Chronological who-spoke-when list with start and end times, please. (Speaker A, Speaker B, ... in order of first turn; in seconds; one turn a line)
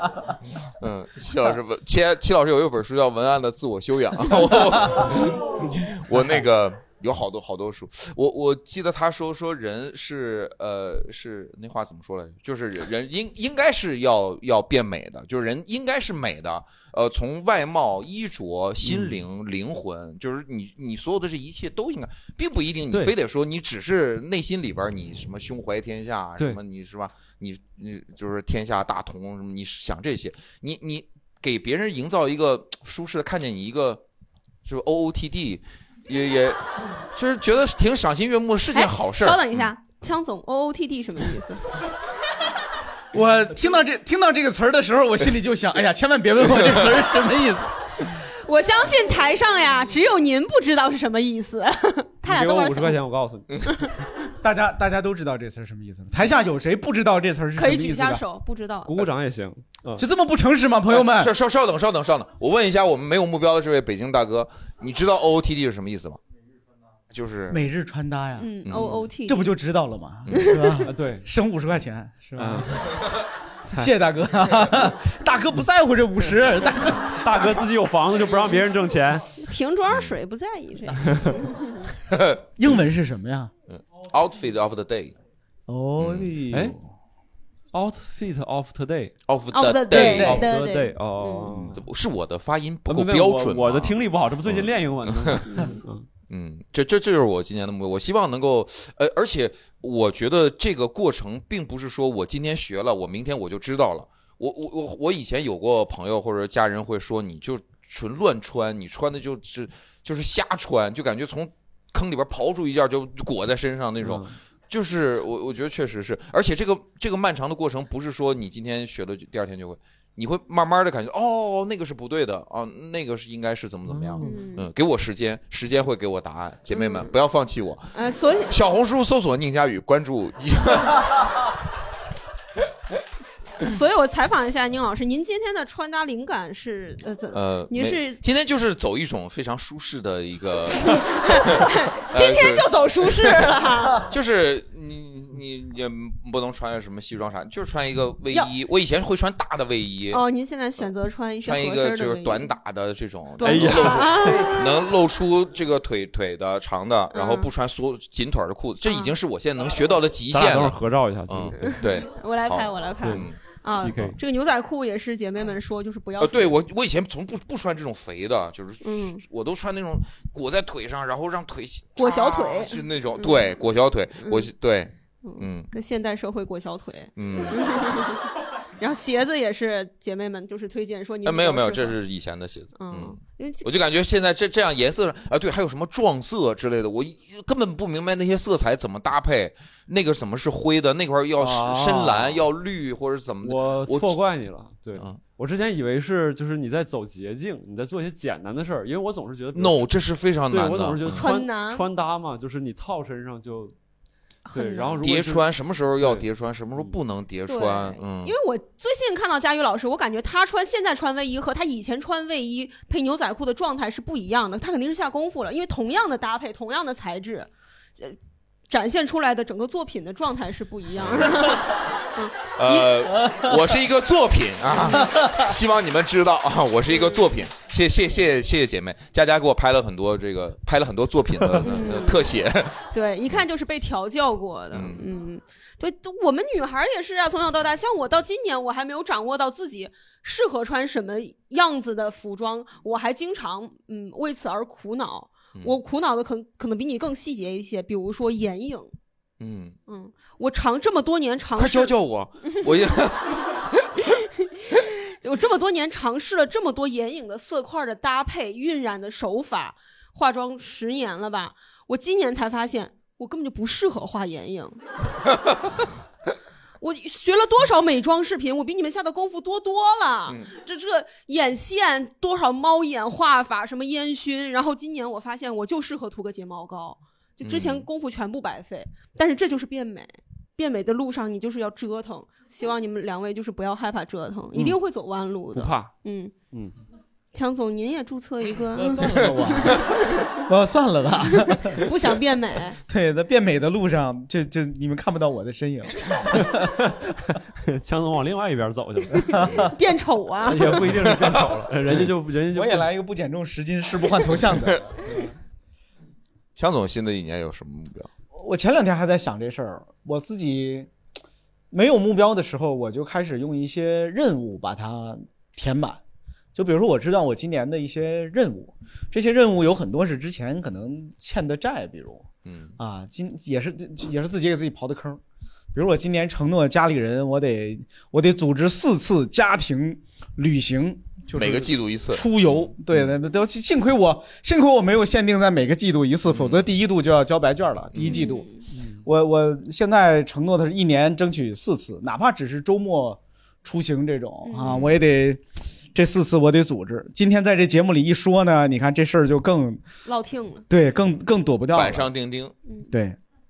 Speaker A: 0.8-34.0
Speaker B: 18.8-19.2
Speaker A: 34.6-36.6
Speaker A: 37.1-39.7
Speaker C: 38.7-41.6
Speaker D: 43.1-47.7
Speaker C: 48.5-53.0
Speaker B: 52.2-53.5
Speaker D: 54.4-58.2
Speaker C: 57.6-59.0
Speaker B: 58.8-60.0
Speaker D: 60.0-61.3
Speaker A: 60.9-66.2
Speaker A: 67.1-67.6
Speaker D: 67.5-68.5
Speaker C: 68.4-69.5
Speaker A: 68.7-69.0
Speaker D: 69.3-72.8
Speaker A: 70.3-70.6
Speaker C: 70.3-70.8
Speaker B: 70.9-71.3
Speaker B: 72.4-73.0
Speaker D: 73.7-77.4
Speaker B: 77.2-79.4
Speaker C: 79.4-81.8
Speaker B: 81.1-81.4
Speaker A: 82.1-82.4
Speaker D: 82.6-83.5
Speaker A: 83.7-85.2
Speaker D: 85.7-86.8
Speaker A: 86.0-86.3
Speaker B: 86.5-86.8
Speaker B: 87.7-89.1
Speaker A: 89.3-90.4
Speaker C: 89.5-91.6
Speaker D: 90.0-90.4
Speaker B: 90.2-91.8
Speaker A: 91.8-95.5
Speaker B: 92.9-96.1
Speaker A: 96.3-128.0
Speaker B: 114.0-114.4
Speaker B: 123.9-124.4
Speaker C: 124.2-124.7
Speaker C: 126.7-127.1
Speaker C: 127.9-128.6
Speaker A: 128.5-131.1
Speaker C: 133.6-138.2
Speaker A: 137.3-143.4
Speaker C: 140.9-144.1
Speaker A: 144.0-150.2
Speaker C: 150.1-152.5
Speaker A: 151.4-164.1
Speaker C: 153.4-154.6
Speaker B: 153.4-154.6
Speaker C: 157.1-157.5
Speaker C: 158.9-159.2
Speaker B: 160.3-161.8
Speaker C: 161.6-166.6
Speaker B: 163.8-164.2
Speaker A: 166.2-175.7
Speaker C: 168.8-169.2
Speaker C: 172.0-173.5
Speaker C: 174.2-174.5
Speaker C: 175.2-178.3
Speaker A: 177.2-177.6
Speaker C: 178.8-182.0
Speaker A: 181.2-194.2
Speaker C: 182.8-183.8
Speaker B: 191.4-192.5
Speaker B: 193.4-199.9
Speaker A: 199.6-201.2
Speaker B: 200.5-203.8
Speaker C: 201.2-201.8
Speaker C: 204.5-205.0
Speaker B: 204.5-205.5
Speaker A: 205.0-208.3
Speaker B: 206.0-206.3
Speaker C: 207.5-218.2
Speaker C: 218.7-223.1
Speaker A: 221.0-221.6
Speaker A: 222.6-233.4
Speaker C: 226.9-227.2
Speaker C: 231.6-232.4
Speaker C: 232.9-248.9
Speaker A: 234.7-235.1
Speaker A: 249.4-249.8
Speaker C: 249.9-251.9
Speaker A: 251.6-253.6
Speaker C: 254.0-264.8
Speaker C: 266.8-286.3
Speaker A: 277.4-277.9
Speaker B: 285.5-285.9
Speaker C: 287.3-290.3
Speaker D: 288.8-291.8
Speaker C: 291.5-292.8
Speaker D: 292.9-296.7
Speaker B: 296.6-299.4
Speaker D: 299.4-299.7
Speaker C: 299.6-300.8
Speaker B: 300.4-302.9
Speaker A: 300.9-301.4
Speaker D: 302.6-304.8
Speaker A: 306.6-308.1
Speaker D: 308.3-310.9
Speaker D: 311.7-316.0
Speaker D: 316.6-322.3
Speaker A: 322.4-322.8
Speaker D: 322.8-325.2
Speaker D: 325.7-338.5
Speaker A: 331.3-333.1
Speaker A: 336.3-336.7
Speaker A: 337.9-338.2
Speaker C: 338.0-338.6
Speaker B: 338.7-339.0
Speaker D: 339.1-345.4
Speaker C: 344.4-344.7
Speaker A: 344.7-345.0
Speaker D: 345.9-349.8
Speaker C: 350.1-350.7
Speaker D: 350.7-352.1
Speaker A: 351.7-352.5
Speaker C: 352.7-352.9
Speaker D: 352.9-353.2